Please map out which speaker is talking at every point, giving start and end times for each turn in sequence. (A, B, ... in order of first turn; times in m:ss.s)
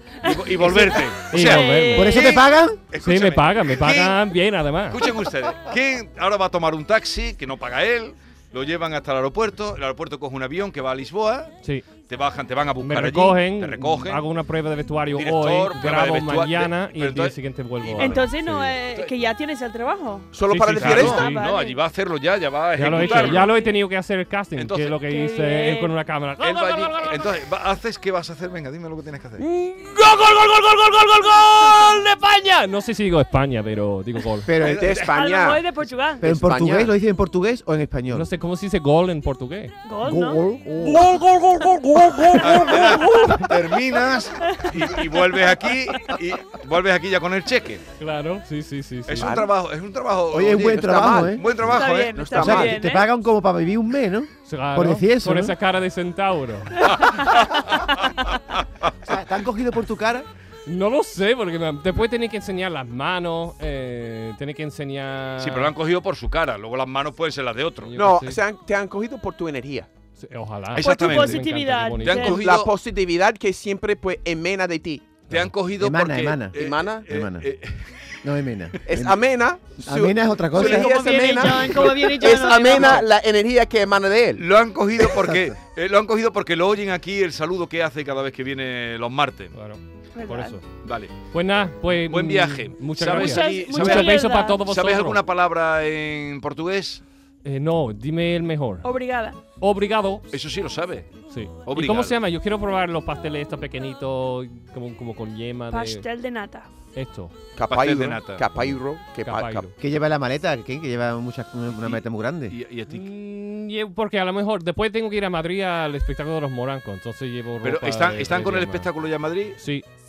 0:00.2-0:02.3 A
0:00.2-0:04.2 B
0:00.6-0:02.2 C
0:01.9-0:02.8 D
0:03.0-0:05.0 C
0:04.9-0:14.2 B
0:11.6-0:11.9 C
0:12.8-0:18.8 C
0:15.1-0:18.4 B
0:18.0-0:20.3 A
0:20.3-0:21.2 E
0:20.5-0:21.4 C
0:20.7-0:23.5 B
0:21.0-0:21.8 A
0:22.8-0:27.3 C
0:22.9-0:23.8 A
0:24.6-0:25.0 B
0:25.1-0:25.9 A
0:26.4-0:29.4 B
0:29.4-0:34.5 C
0:34.4-0:35.0 D
0:34.6-0:35.1 B
0:34.6-0:35.6 E
0:35.0-0:36.3 A
0:36.2-0:36.9 E
0:36.2-0:38.3 D
0:38.1-0:39.7 C
0:39.8-0:40.5 A
0:40.0-0:41.1 D
0:40.8-0:43.6 C
0:42.4-0:47.8 B
0:42.5-0:43.4 A
0:44.4-0:44.8 A
0:48.0-0:49.4 C
0:49.1-0:52.7 B
0:49.2-0:49.5 E
0:50.3-0:51.6 D
0:50.7-0:51.4 E
0:51.7-0:53.0 A
0:52.1-0:52.8 E
0:52.3-0:55.6 D
0:54.4-0:56.9 C
0:56.8-0:58.9 B
0:56.9-0:57.3 A
0:59.0-1:00.3 D
1:00.6-1:05.7 C
1:05.4-1:08.0 B
1:07.8-1:08.4 C
1:08.0-1:09.9 E
1:10.2-1:12.4 C
1:10.7-1:11.5 B
1:10.8-1:12.4 A
1:12.0-1:12.7 B
1:12.2-1:15.1 E
1:15.3-1:18.8 B
1:15.8-1:17.5 D
1:16.6-1:17.0 E
1:18.2-1:19.2 D
1:18.8-1:24.4 E
1:19.8-1:21.9 D
1:20.5-1:23.1 A
1:24.4-1:29.5 B
1:29.5-1:30.6 C
1:30.1-1:30.6 A
1:30.8-1:31.1 B
1:31.3-1:35.2 C
1:32.1-1:37.0 B
1:33.0-1:34.6 A
1:37.4-1:38.8 C
1:38.8-1:39.4 A
1:39.5-1:40.2 C
1:40.3-1:41.1 B
1:41.3-1:46.0 C
1:41.6-1:42.2 B
1:45.7-1:46.7 A
1:46.9-1:47.3 C
1:47.5-1:49.7 E
1:47.7-1:48.4 B
1:49.2-1:49.7 C
1:49.8-1:52.6 D
1:51.7-1:53.1 B
1:52.9-1:58.9 C
1:57.6-1:59.6 B
1:59.5-1:59.8 C